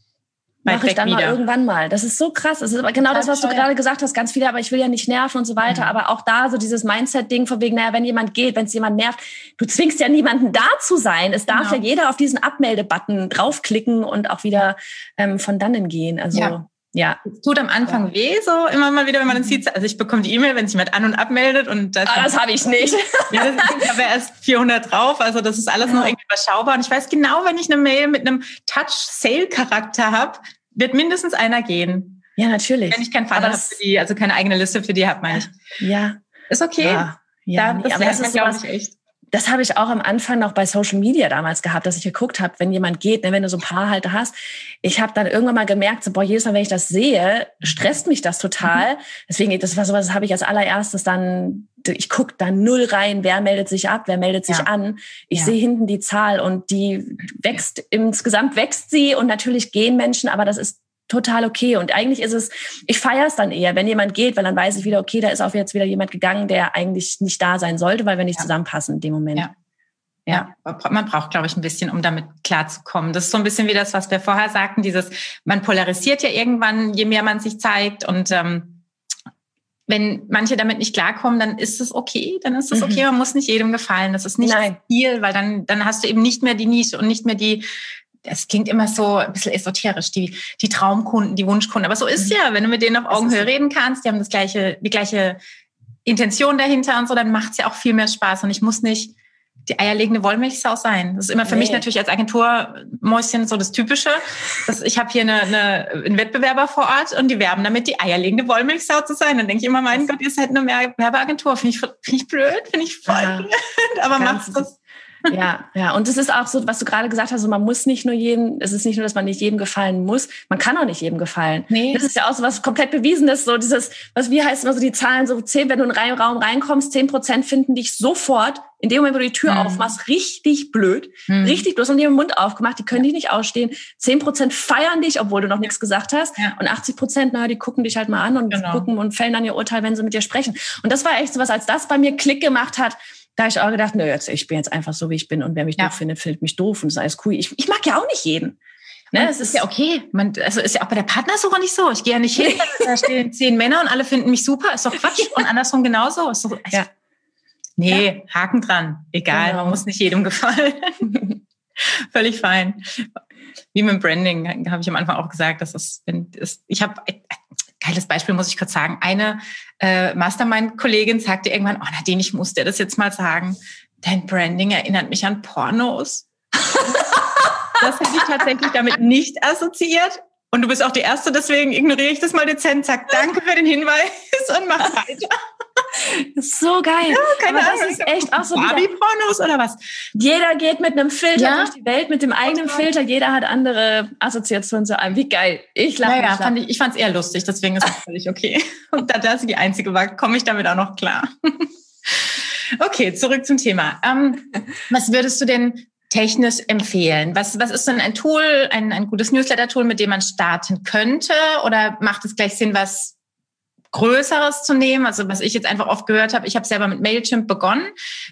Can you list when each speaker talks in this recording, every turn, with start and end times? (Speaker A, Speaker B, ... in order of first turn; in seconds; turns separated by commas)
Speaker A: 0.7-1.4, Speaker B: 0.7-17.2, Speaker A: 3.0-3.7, Speaker A: 5.6-5.9, Speaker A: 11.5-11.8, Speaker A: 17.2-22.3, Speaker B: 22.1-23.9, Speaker A: 23.3-32.2, Speaker B: 25.9-26.1, Speaker B: 32.4-33.7, Speaker A: 32.9-35.5, Speaker B: 35.8-36.2, Speaker A: 36.5-39.0, Speaker B: 36.8-38.6, Speaker B: 39.3-69.5, Speaker A: 70.3-78.8, Speaker A: 79.9-87.7, Speaker B: 82.7-83.0, Speaker B: 84.4-84.8, Speaker A: 88.2-95.4, Speaker B: 93.1-93.5, Speaker A: 96.1-99.1, Speaker A: 99.7-115.3, Speaker B: 101.4-101.9, Speaker B: 113.1-113.5, Speaker B: 114.2-114.7, Speaker B: 115.3-148.6, Speaker A: 121.7-122.0, Speaker A: 129.5-129.9, Speaker A: 131.3-131.6, Speaker A: 138.5-138.9, Speaker B: 149.1-149.6, Speaker A: 149.1-156.8, Speaker B: 152.4-153.1, Speaker A: 157.8-161.1, Speaker B: 159.3-159.8, Speaker B: 161.1-161.4, Speaker A: 161.8-163.1, Speaker A: 163.7-177.2, Speaker B: 176.8-178.9, Speaker A: 177.8-185.4, Speaker B: 186.0-188.9, Speaker A: 187.1-189.8, Speaker B: 190.2-196.5, Speaker A: 191.4-191.7, Speaker A: 196.0-213.2, Speaker A: 213.9-217.9